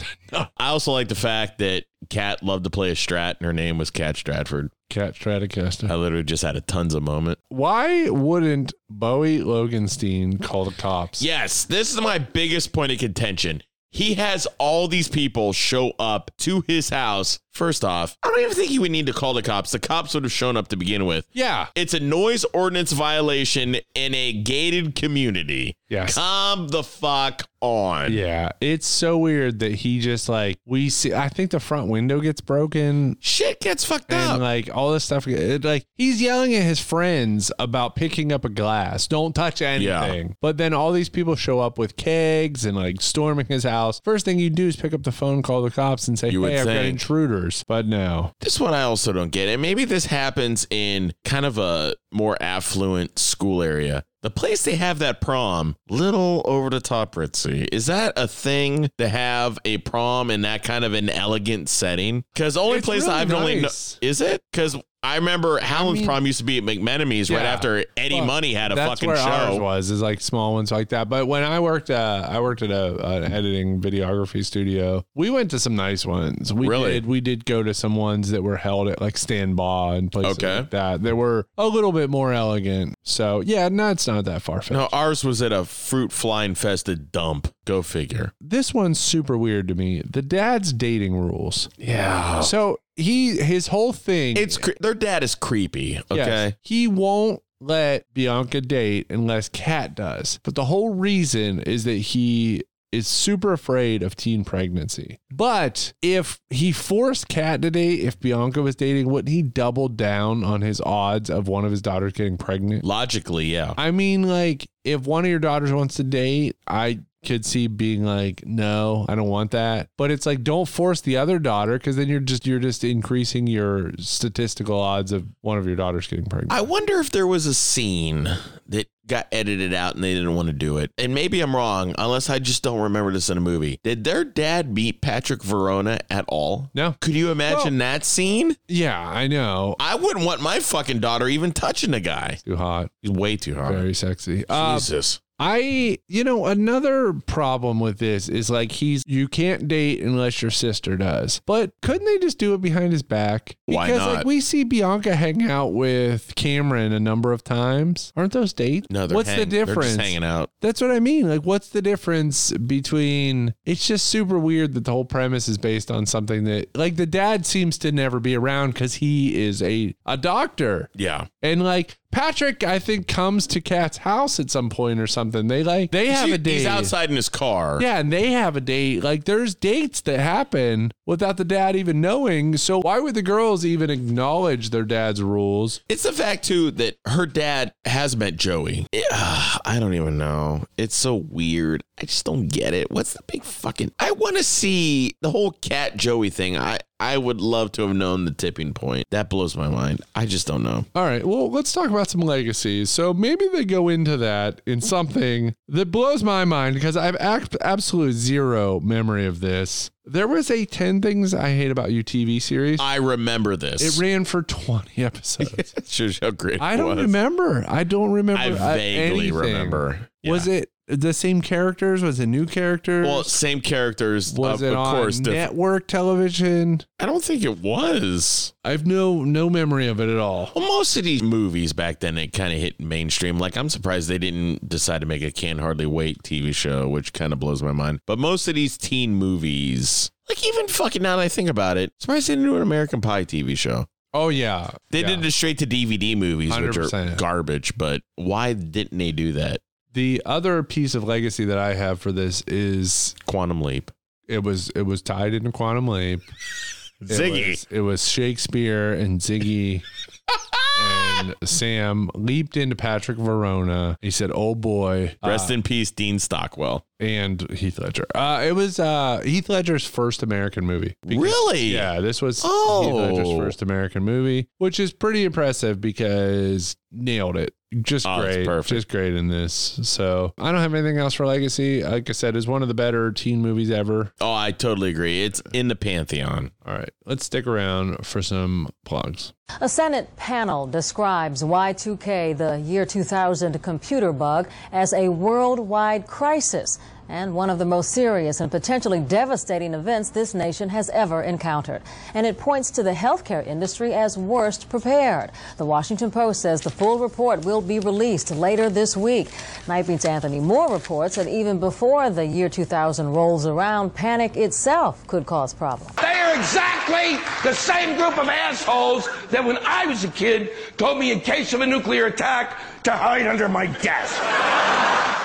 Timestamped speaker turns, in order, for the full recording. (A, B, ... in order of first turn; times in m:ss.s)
0:00.5-0:04.7 A
0:04.9-0:05.9 B
0:05.9-0:07.4 A
0:07.5-0:11.2 B
0:11.2-0:28.2 A
0:21.4-0:21.7 B
0:25.9-0:26.2 B
0:28.1-0:33.2 B
0:33.2-0:34.4 A
0:34.1-0:48.3 B
0:39.8-0:40.2 A
0:46.3-0:47.0 A
0:48.4-1:09.6 A
1:02.7-1:04.0 B
1:05.7-1:06.2 B
1:07.3-1:24.9 B
1:16.6-1:17.0 A
1:20.2-1:20.7 A
1:24.7-1:28.3 A
1:28.4-1:31.8 B
1:31.8-1:32.5 A
1:32.4-1:34.7 B
1:34.3-1:36.6 A
1:36.1-1:52.8 B
1:52.8-1:53.8 A
1:53.8-2:06.6 B
2:06.5-2:18.6 A
2:16.7-2:17.7 B
2:18.7-2:19.8 B
2:19.8-2:22.4 A
2:22.4-2:22.9 B
2:23.0-2:23.9 A
2:23.6-2:24.9 B
2:24.5-2:25.2 A
2:25.4-2:50.9 B
2:33.7-2:34.3 A
2:38.9-2:40.5 A
2:51.0-2:51.3 A
2:51.4-2:56.9 B
2:56.1-2:57.8 A
2:57.8-3:05.8 B
3:05.9-3:20.9 A
3:20.9-3:32.9 B
3:32.8-3:34.0 A
3:33.8-3:35.6 B
3:35.4-3:37.2 A
3:36.6-3:43.4 B
3:38.3-3:40.5 A
3:43.0-3:45.5 A
3:44.3-3:46.9 B
3:47.0-3:48.5 A
3:48.6-3:50.5 B
3:50.5-4:03.9 A
4:04.1-4:05.2 B
4:04.9-4:09.6 A
4:06.5-4:07.2 B
4:09.9-4:13.2 B
4:13.3-4:13.9 A
4:14.3-4:16.3 B
4:17.0-4:17.6 A
4:17.1-4:19.8 B
4:20.7-4:25.6 B
4:25.2-4:26.8 A
4:27.0-4:44.1 B
4:31.1-4:31.9 A
4:32.4-4:33.6 A
4:38.0-4:38.8 A
4:44.2-4:46.5 A
4:46.6-4:49.3 B
4:49.6-5:15.9 C
5:16.0-5:24.2 D